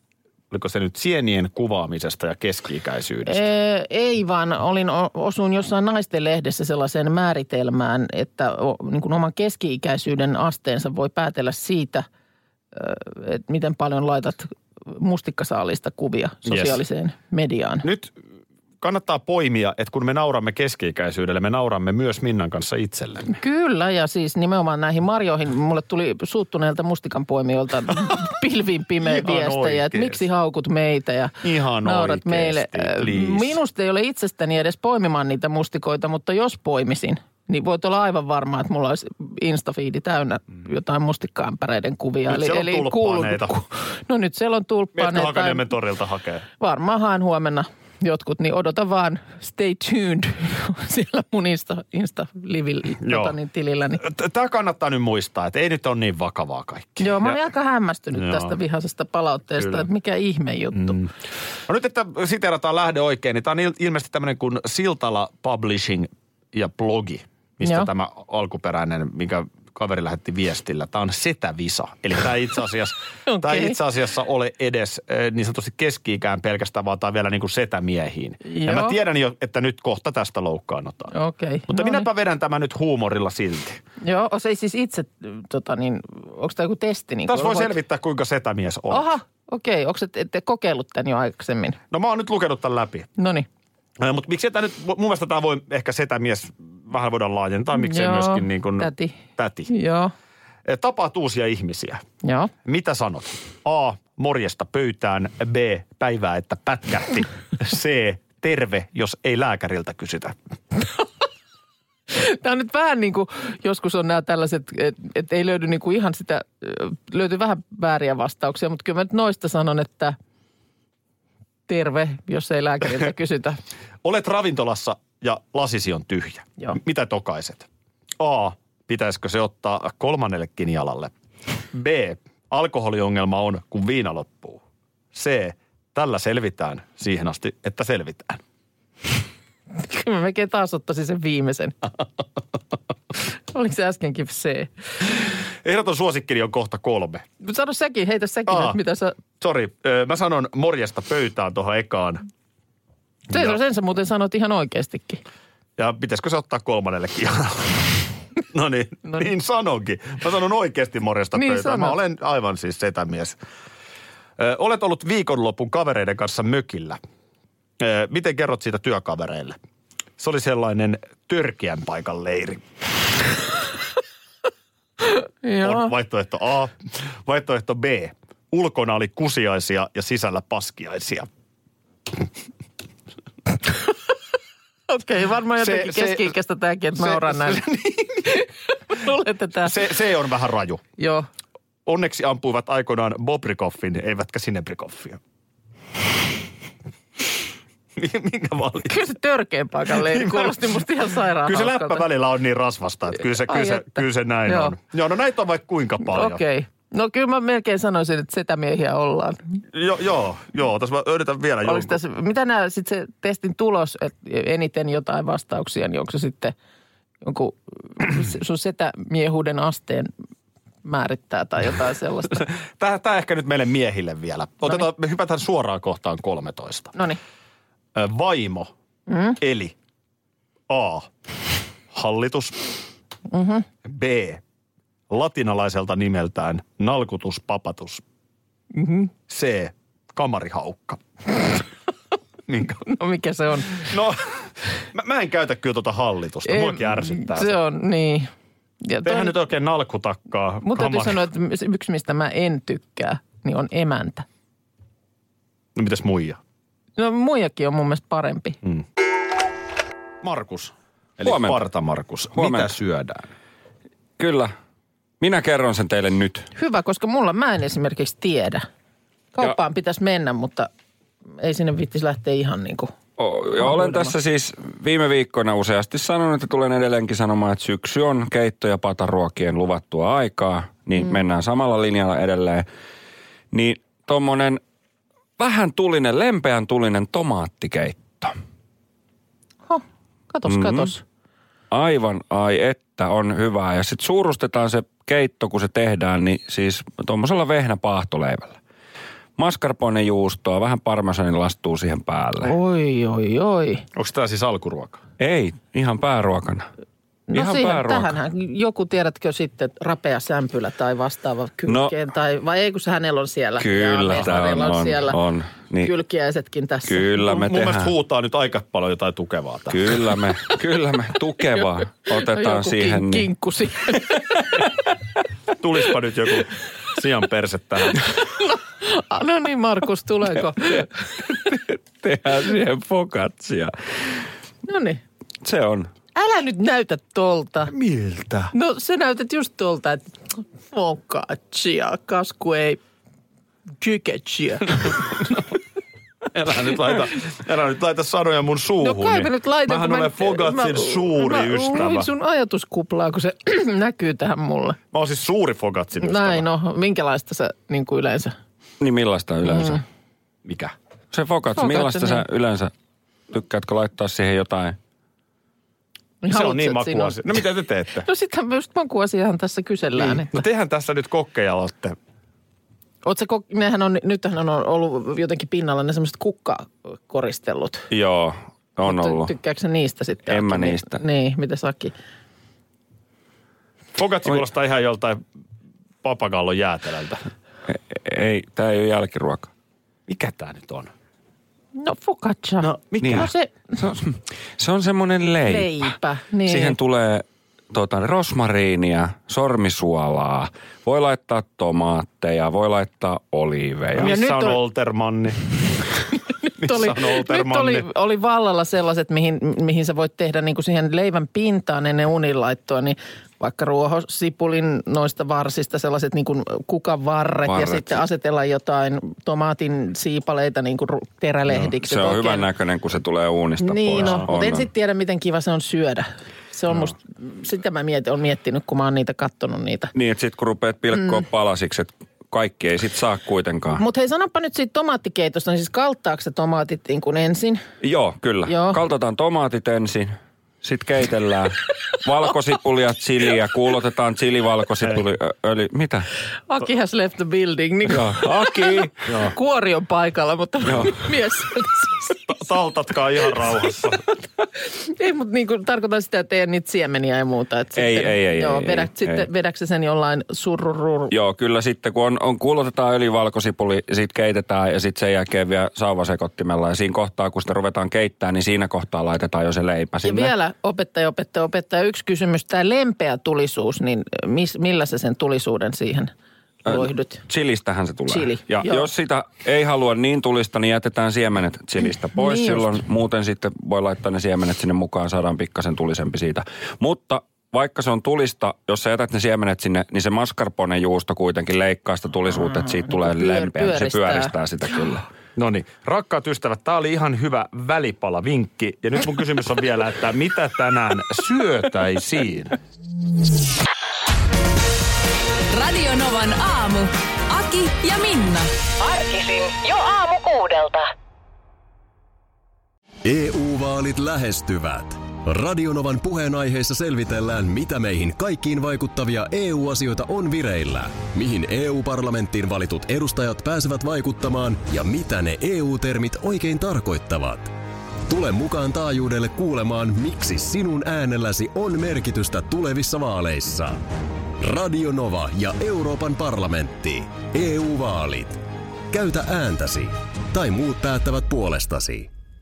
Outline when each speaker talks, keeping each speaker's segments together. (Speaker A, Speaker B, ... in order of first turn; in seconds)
Speaker A: 0.5-3.4, 16.4-16.8, 17.8-18.1, 18.8-23.3, 29.0-30.2, 31.4-33.6, 42.3-43.6, 44.9-46.4, 53.0-53.4, 54.0-57.4, 58.1-58.5, 59.6-59.9, 60.7-61.1, 61.6-81.1, 81.7-83.8, 87.3-89.1, 91.9-93.1, 94.0-99.7, 100.6-102.0, 102.6-110.4, 124.0-127.7, 128.2-131.1, 131.7-134.6, 135.1-138.4, 145.6-147.2, 148.5-148.8, 149.4-152.2, 153.3-153.6, 155.8-163.4, 164.4-167.0, 167.8-169.6, 170.2-172.6, 175.6-181.3, 185.6-186.3, 186.9-188.3, 189.6-190.8, 191.8-195.2, 197.9-199.0, 199.9-200.7, 201.4-206.4, 209.7-212.0, 222.3-226.9, 227.9-228.7, 229.4-229.7, 230.7-231.1, 231.9-232.8, 233.8-234.4, 235.1-238.0, 239.3-241.6, 242.4-242.9, 243.7-247.5, 249.0-251.2, 255.7-256.4, 260.2-263.3, 303.9-305.0, 317.2-320.1, 325.6-328.0, 337.7-338.5, 346.3-352.1, 354.9-356.4, 360.4-360.7, 366.3-368.1, 369.9-372.0, 383.9-385.2, 386.0-387.2, 390.1-390.9, 392.6-393.3, 404.0-405.4, 406.6-407.9, 452.3-454.0, 495.4-502.6
Speaker B: 3.2-12.1, 12.7-17.9, 23.2-45.7, 46.6-54.0, 57.0-61.0, 67.6-67.9, 73.2-73.8, 78.4-79.0, 81.1-82.1, 84.0-87.7, 88.9-91.8, 93.2-93.5, 97.7-100.1, 102.2-102.5, 112.1-120.2, 121.7-123.6, 139.7-141.8, 143.5-144.7, 147.4-149.2, 153.3-155.2, 161.3-161.9, 175.0-175.9, 184.9-187.6, 188.3-189.8, 191.0-191.3, 198.9-202.0, 203.3-204.8, 206.0-209.5, 211.6-216.5, 217.2-220.1, 220.8-222.5, 226.9-227.2, 229.1-229.4, 233.3-233.7, 238.7-239.1, 242.8-243.9, 246.4-248.3, 248.8-249.3, 250.6-254.2, 257.0-258.6, 266.5-268.7, 269.3-270.7, 271.4-272.9, 273.6-274.1, 289.7-291.0, 302.4-303.9, 307.3-315.2, 315.8-317.1, 322.1-324.4, 328.2-330.9, 334.6-335.0, 336.1-337.7, 338.5-342.8, 343.8-345.1, 348.8-354.8, 356.0-358.3, 359.4-359.8, 361.5-362.2, 366.2-367.4, 368.0-370.4, 373.0-377.9, 378.8-381.9, 391.8-393.5, 395.4-396.8, 403.9-404.6, 406.4-422.5, 423.6-429.9, 433.8-437.6, 438.4-438.8, 446.5-452.3, 454.6-461.1, 470.0-476.1, 476.6-477.2, 478.1-478.9, 482.2-482.8, 492.3-494.3
Speaker C: 261.2-261.6, 262.3-262.7, 264.2-264.5, 265.2-266.5, 273.2-282.7, 283.5-284.6, 285.4-288.3, 290.5-290.9, 291.7-298.6, 299.4-302.5, 305.2-306.7, 307.3-308.1, 311.7-311.9, 313.6-315.9, 316.9-317.9, 319.7-323.3, 331.2-334.2, 335.4-335.9, 358.8-359.8, 361.1-362.7, 363.3-364.8, 377.9-379.3, 380.3-381.0, 387.7-389.5, 393.0-404.1, 417.4-418.0, 421.7-424.7, 429.9-433.8, 437.8-446.1, 447.9-449.3, 450.6-451.1, 457.8-459.3, 461.1-470.3, 476.6-495.1
Speaker D: 505.5-508.5
Speaker E: 508.9-510.8
Speaker F: 513.0-527.5, 528.1-533.8, 534.4-542.1